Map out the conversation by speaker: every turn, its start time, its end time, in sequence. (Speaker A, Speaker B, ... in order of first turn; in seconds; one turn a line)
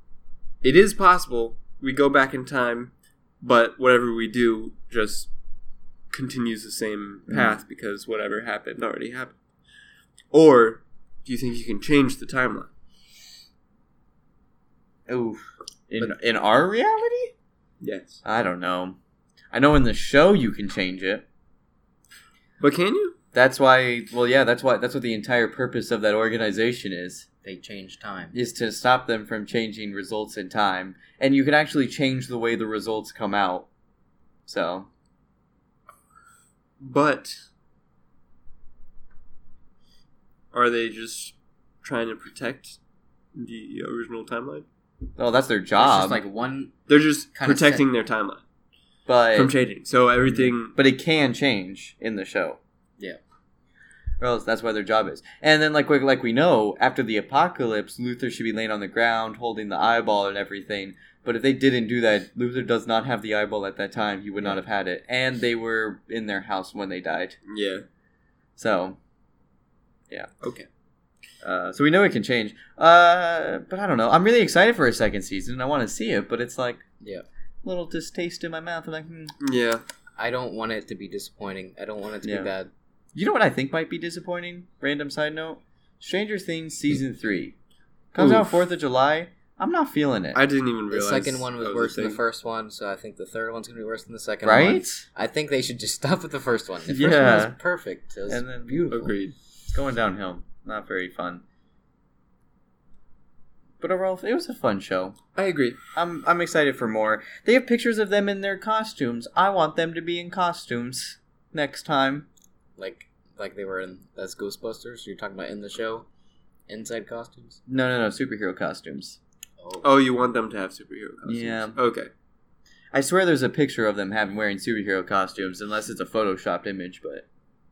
Speaker A: 0.6-5.3
Speaker A: 6.1-9.3
Speaker B: 7.3-7.6
Speaker A: 10.3-12.7
Speaker B: 15.1-17.3
Speaker A: 17.8-18.2
Speaker B: 18.2-18.9
Speaker B: 19.5-21.2
Speaker A: 22.6-23.1
Speaker B: 23.3-27.2
Speaker C: 27.4-28.3
Speaker B: 28.3-33.7
Speaker B: 34.5-34.9
Speaker A: 36.8-37.4
Speaker A: 40.5-42.8
Speaker A: 43.3-44.6
Speaker B: 45.2-46.2
Speaker C: 45.8-46.7
Speaker A: 46.9-48.4
Speaker C: 47.3-47.8
Speaker B: 49.1-49.5
Speaker A: 49.3-50.7
Speaker B: 50.3-52.6
Speaker B: 54.2-67.4
Speaker A: 67.5-67.8
Speaker B: 68.6-69.0
Speaker A: 70.4-70.7
Speaker B: 71.4-76.8
Speaker B: 77.6-79.3
Speaker A: 79.4-79.8
Speaker C: 80.2-82.7
Speaker B: 82.2-82.5
Speaker B: 83.1-87.5
Speaker B: 88.1-90.4
Speaker A: 88.2-88.5
Speaker A: 90.3-92.2
Speaker C: 90.9-99.1
Speaker B: 94.4-95.0
Speaker B: 96.9-97.5
Speaker B: 98.3-98.8
Speaker A: 98.9-99.3
Speaker B: 99.7-101.4
Speaker B: 103.8-105.2
Speaker A: 105.3-105.8
Speaker B: 105.9-112.3
Speaker C: 112.8-116.0
Speaker C: 116.7-117.6
Speaker B: 117.7-119.2
Speaker C: 119.6-119.9
Speaker A: 119.8-122.1
Speaker B: 121.2-121.8
Speaker B: 122.9-127.2